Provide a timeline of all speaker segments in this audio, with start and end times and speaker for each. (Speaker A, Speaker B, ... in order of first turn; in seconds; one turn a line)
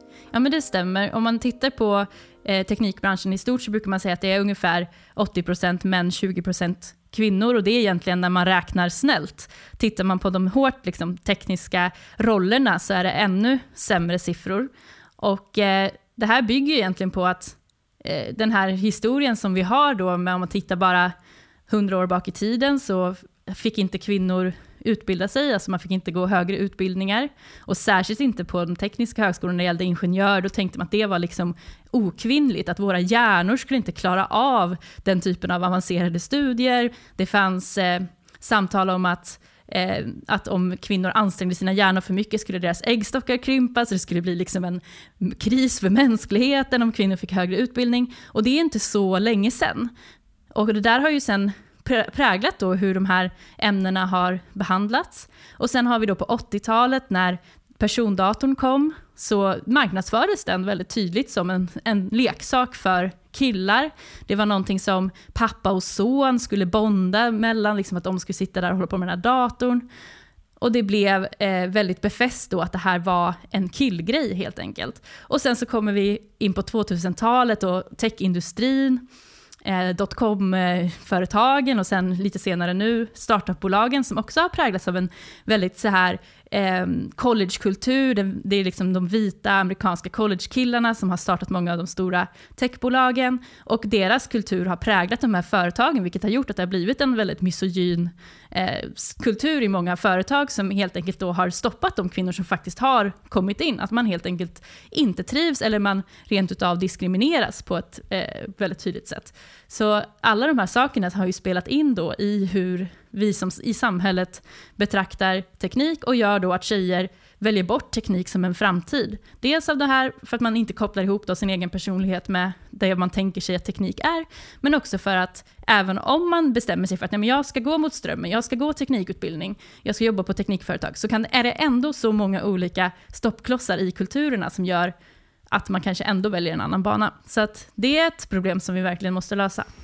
Speaker A: 0.3-21.1
Speaker A: 21.7-49.9
Speaker A: 50.5-69.8
Speaker A: 70.6-79.0
Speaker A: 79.6-134.9
Speaker A: 135.5-139.7